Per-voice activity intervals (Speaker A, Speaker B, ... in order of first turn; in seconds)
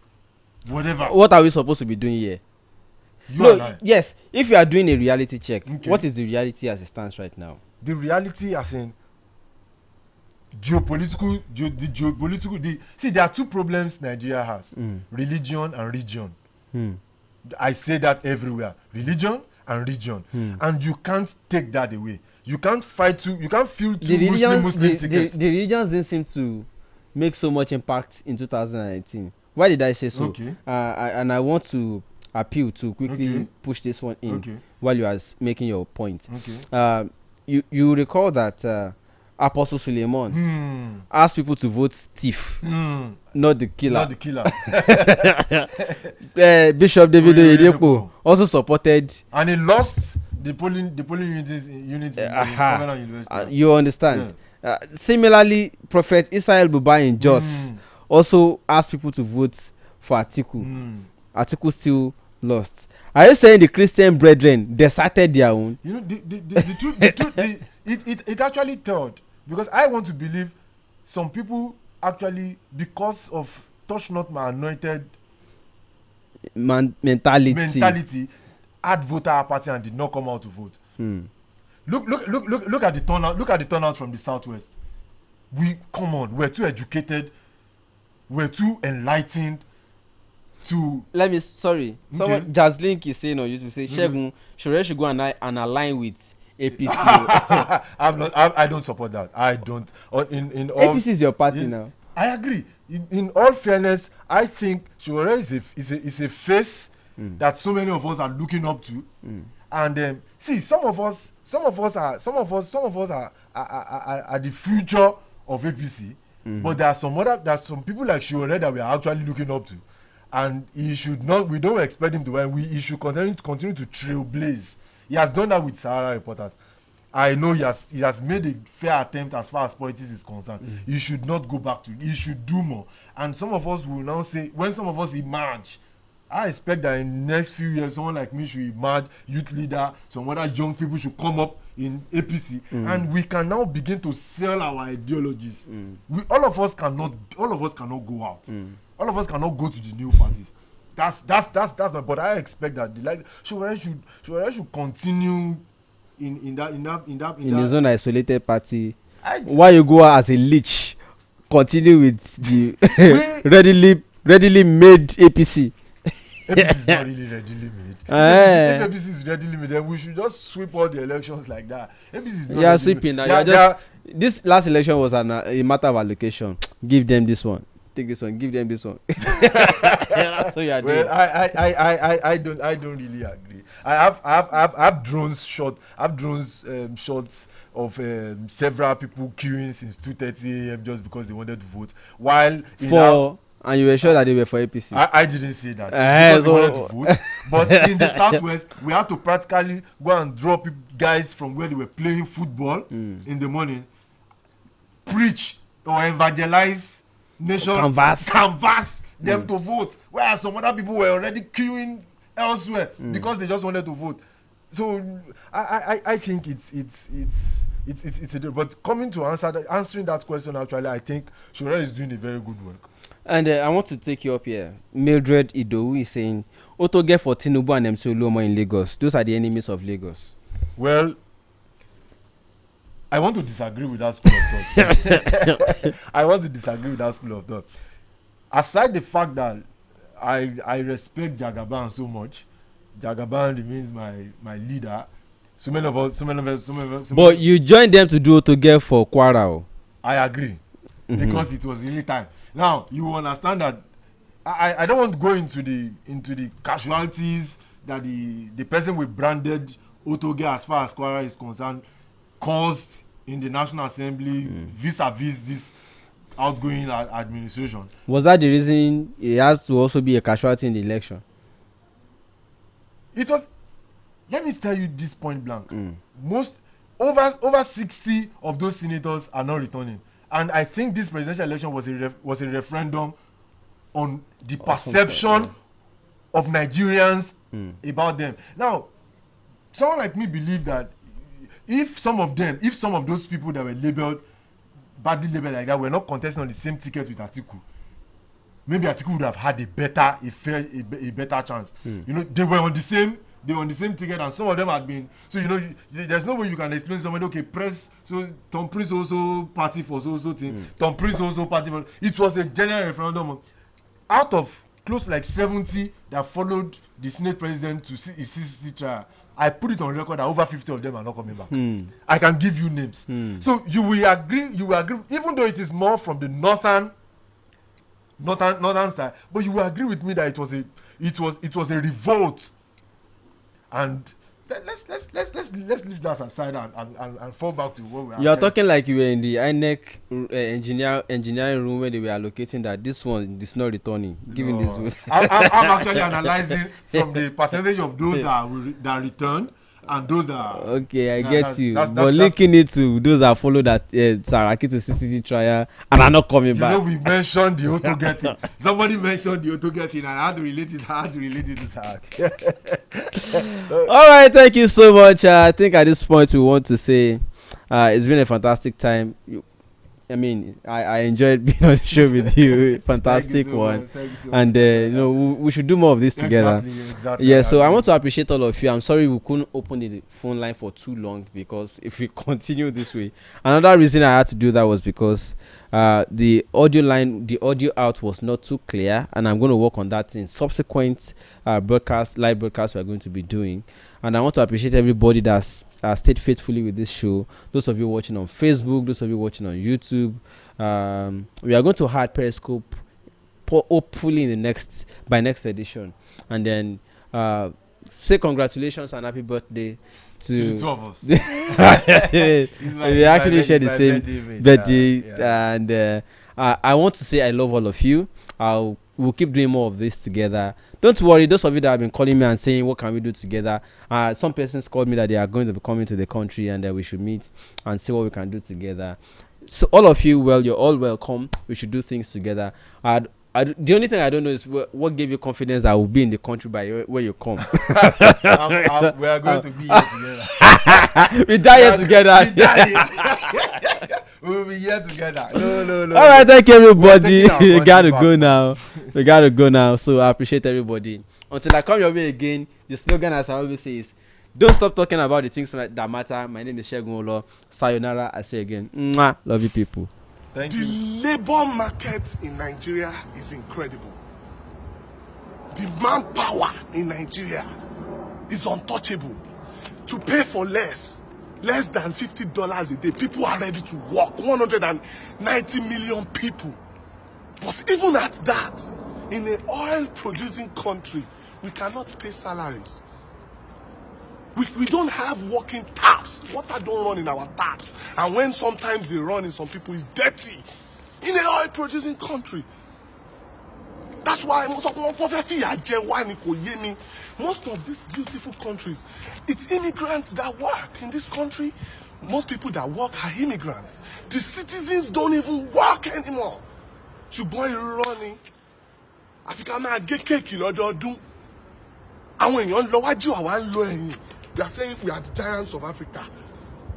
Speaker A: 0.6-1.2, 3.3-3.8, 5.7-6.0, 7.8-9.0, 10.5-16.4, 17.4-25.3, 30.1-30.6, 33.1-33.5, 34.3-34.6, 36.3-36.7, 40.3-41.1, 42.6-43.2, 43.8-46.1, 47.2-48.1, 49.3-53.5, 54.1-54.4, 57.2-57.8, 60.6-61.1, 65.8-75.1, 77.5-78.3, 78.8-80.8, 81.9-84.7, 85.5-87.3, 88.3-89.7, 90.6-91.1, 92.1-92.5, 93.9-94.2, 96.8-109.1, 109.7-126.6, 127.1-155.6, 156.2-157.7, 159.2-159.6, 162.4-163.5, 166.5-173.8, 179.3-180.3, 180.8-193.2, 194.9-203.9, 205.1-222.9, 230.8-231.2, 233.1-237.7, 238.5-239.7, 240.2-245.1, 245.6-247.4, 250.0-250.6, 251.1-253.8, 254.4-261.9, 262.4-265.8, 266.4-267.9, 273.1-273.5, 274.3-283.2, 283.9-285.6, 286.3-288.9, 289.7-294.2, 295.0-297.6, 298.7-313.4, 314.1-326.9, 328.2-332.5, 333.7-338.5, 344.3-352.4, 356.5-363.9, 371.9-375.1, 376.2-377.9, 410.3-415.4, 437.6-440.9, 441.5-448.9, 460.3-460.8
Speaker B: 1.1-2.4, 3.4-7.6, 14.8-15.0, 16.7-17.0, 20.3-20.6, 24.0-40.4, 41.1-42.6, 43.4-44.1, 44.7-45.7, 46.4-49.2, 52.2-60.7, 61.3-65.8, 76.6-78.0, 81.0-81.3, 91.1-97.7, 100.8-101.9, 116.5-116.8, 142.7-143.1, 145.7-146.0, 148.5-148.8, 157.4-161.0, 161.5-165.7, 166.6-167.0, 168.1-168.9, 172.5-181.1, 192.8-195.0, 195.9-198.4, 202.9-203.2, 207.6-208.4, 213.0-213.3, 223.3-230.3, 234.9-235.1, 247.1-249.7, 251.1-251.5, 268.1-271.2, 275.7-276.0, 284.6-285.5, 321.5-321.9, 323.1-323.4, 338.2-346.2, 350.6-356.8, 363.8-369.4, 370.1-376.6, 377.2-402.8, 403.5-439.9, 440.4-443.1, 445.9-459.9
Speaker C: 460.5-464.0, 465.5-467.5, 468.3-469.2, 469.9-476.6, 477.4-482.8, 484.4-490.5, 491.0-492.5, 494.0-506.4, 507.1-508.2, 509.2-511.0, 512.2-516.1